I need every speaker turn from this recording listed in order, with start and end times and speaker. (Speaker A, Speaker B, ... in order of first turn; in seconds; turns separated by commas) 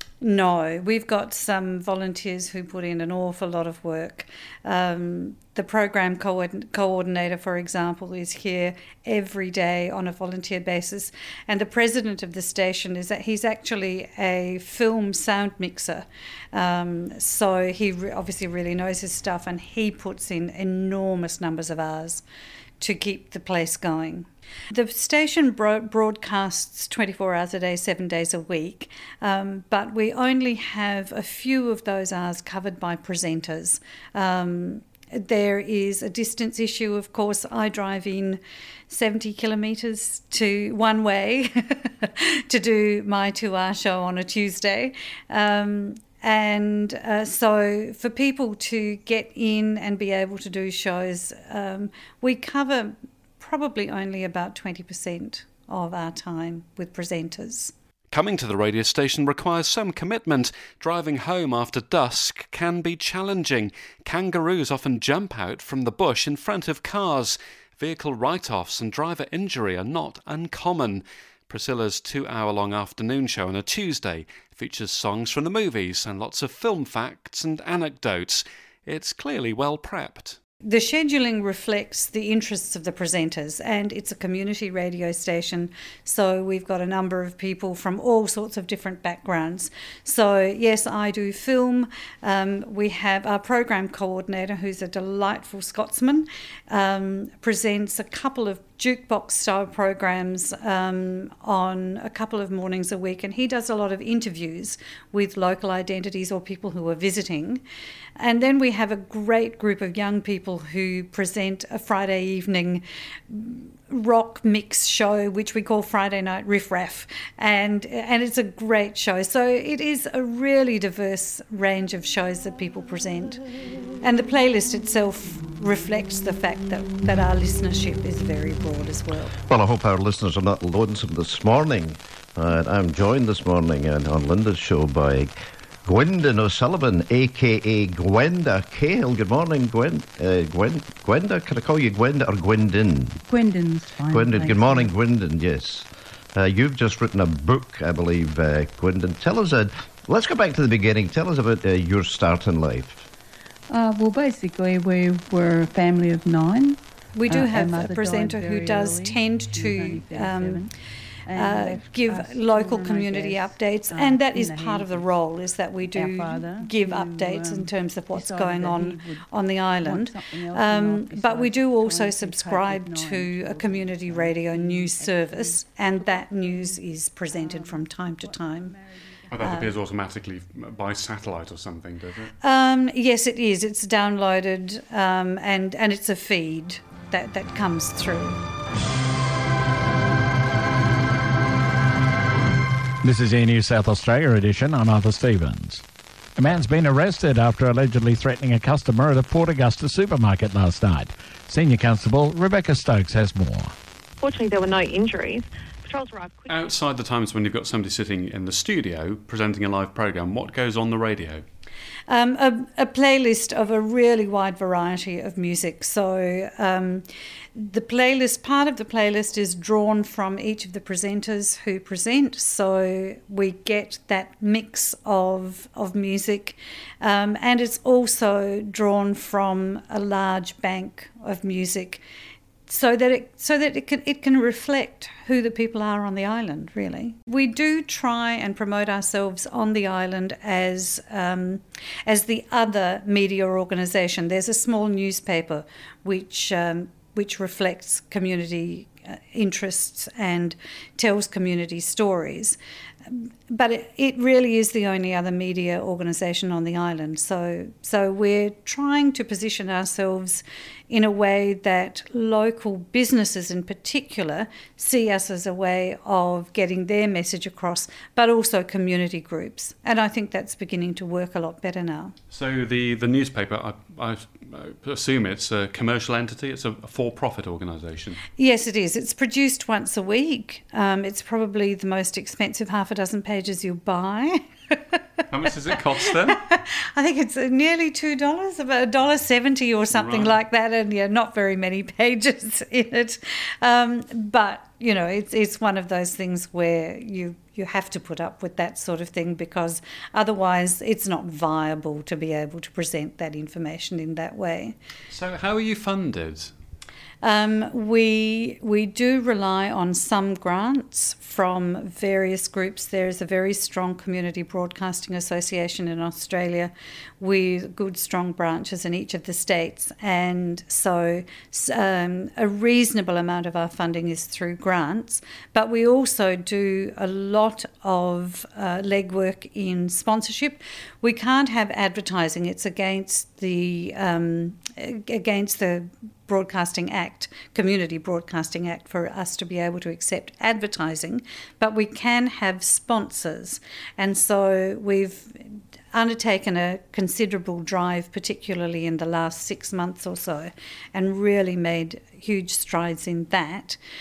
Speaker A: 0.2-22.2, Speaker A: 22.8-57.7, Speaker B: 58.1-80.4, Speaker A: 80.6-107.6, Speaker A: 108.2-123.4, Speaker A: 124.0-129.3, Speaker C: 129.5-143.2, Speaker D: 143.2-144.9, Speaker C: 144.1-153.1, Speaker D: 153.7-160.7, Speaker A: 157.1-160.7, Speaker D: 161.2-165.1, Speaker A: 161.3-178.8, Speaker D: 165.9-169.2, Speaker D: 169.8-179.6, Speaker B: 179.3-182.3, Speaker A: 179.4-179.7, Speaker A: 182.4-188.4, Speaker E: 193.0-195.8, Speaker E: 196.4-203.7, Speaker F: 204.2-206.4, Speaker B: 206.5-211.4, Speaker A: 212.1-232.0, Speaker A: 232.7-272.1, Speaker B: 272.3-278.2, Speaker A: 278.4-285.0, Speaker B: 285.3-286.4, Speaker A: 286.2-304.8, Speaker B: 289.9-290.4, Speaker B: 305.1-306.5, Speaker A: 307.2-353.8